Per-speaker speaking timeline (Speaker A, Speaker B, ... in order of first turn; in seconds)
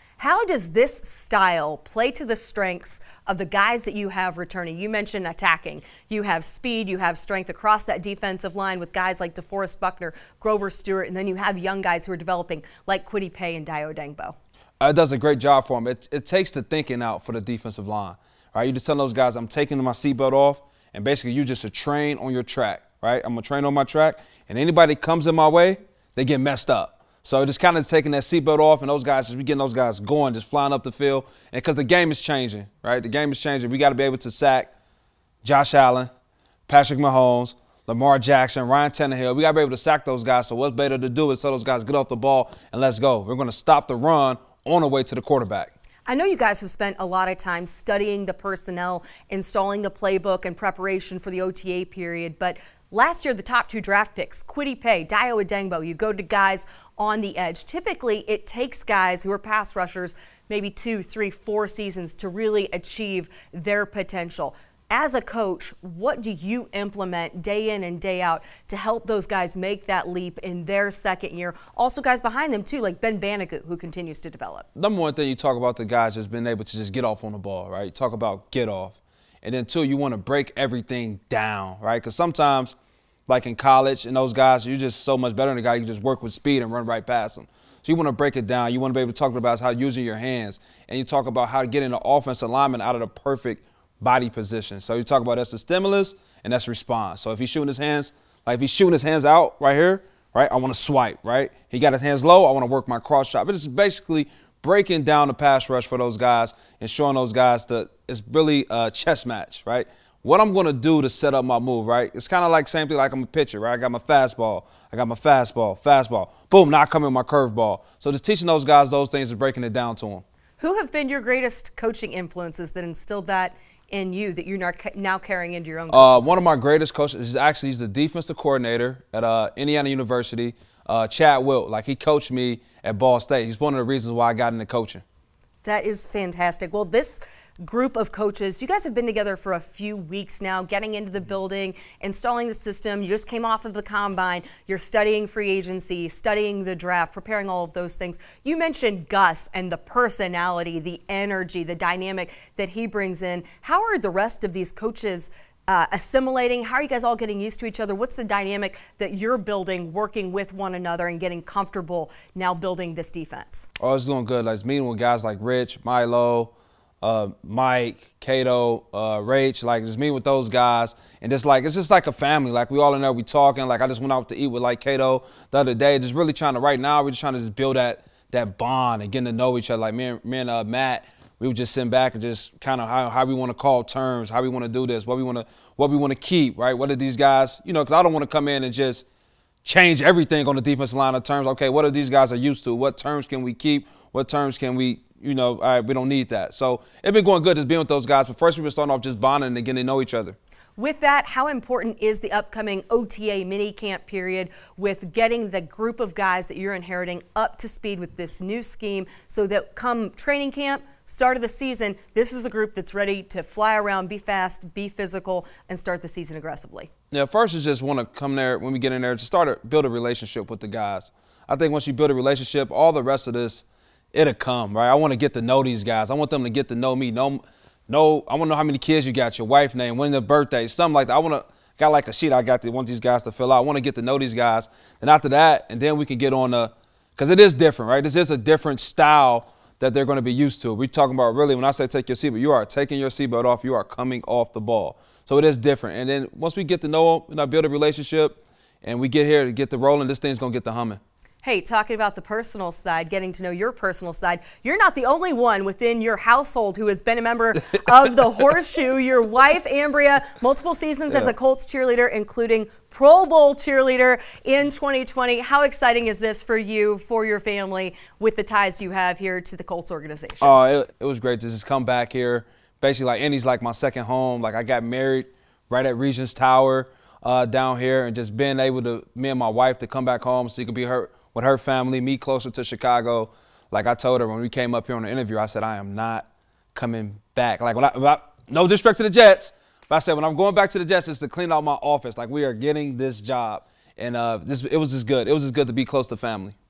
Speaker A: 0.2-14.4, 46.1-74.7, 120.6-126.4, 135.6-163.7, 200.8-216.9, 251.4-270.6
Speaker B: 14.8-34.7, 35.4-36.1, 36.7-45.7, 74.8-82.7, 83.3-120.2, 125.9-135.0, 163.8-189.0, 189.6-200.3, 217.1-251.0, 270.4-296.5